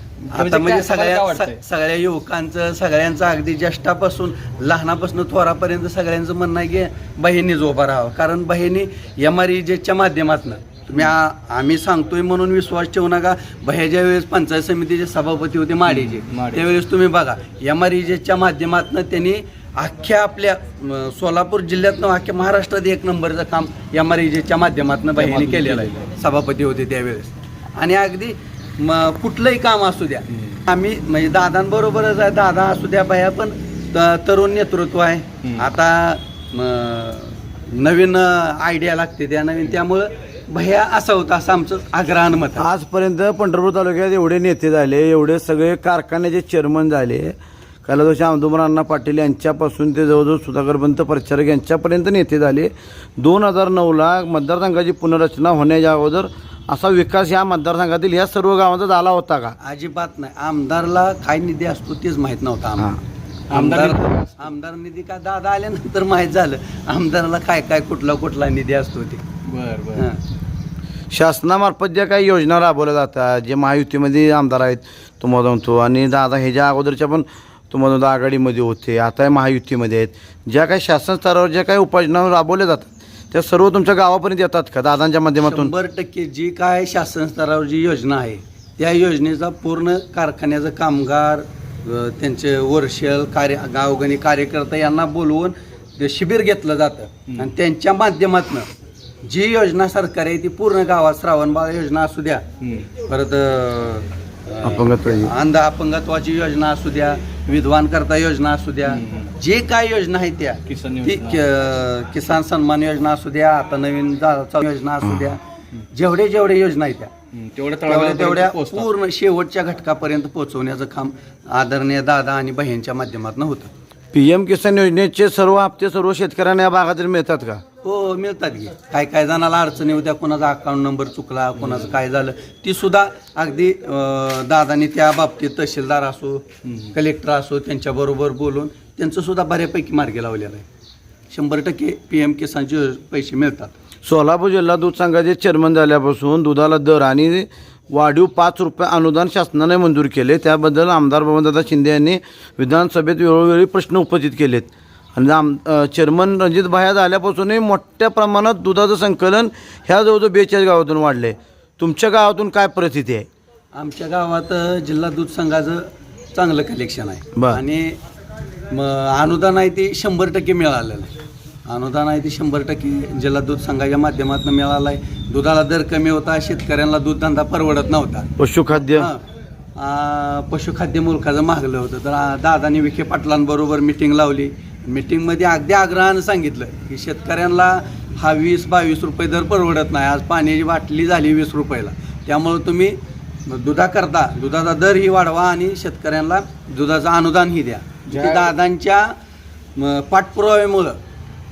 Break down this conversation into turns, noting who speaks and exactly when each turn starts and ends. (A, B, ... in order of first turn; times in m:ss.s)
0:00.2-0:01.6 A
0:00.3-0:42.7 B
0:15.9-0:16.7 A
0:25.2-0:26.0 A
0:42.6-0:59.6 C
0:59.6-1:02.9 B
1:03.5-1:04.5 A
1:03.5-1:09.2 B
1:09.4-1:10.0 A
1:10.0-1:10.2 B
1:11.1-1:25.7 C
1:25.4-1:38.7 B
1:39.2-1:42.4 B
1:42.6-1:42.9 A
1:43.0-1:55.4 B
1:44.6-1:45.3 C
1:48.9-1:49.3 A
1:50.6-1:51.4 A
1:55.9-1:57.1 B
1:57.3-1:58.9 A
1:57.9-2:03.7 B
2:04.1-2:07.6 C
2:07.8-2:20.6 B
2:11.6-2:12.0 A
2:16.6-2:16.9 A
2:21.3-2:23.7 B
2:24.0-2:43.3 C
2:43.7-2:48.0 B
2:47.4-2:47.6 C
2:48.7-2:51.1 B
2:51.6-2:58.3 B
2:58.4-2:59.1 C
2:58.8-2:59.2 B
2:59.8-3:19.1 B
3:18.1-3:18.5 A
3:19.8-3:21.0 B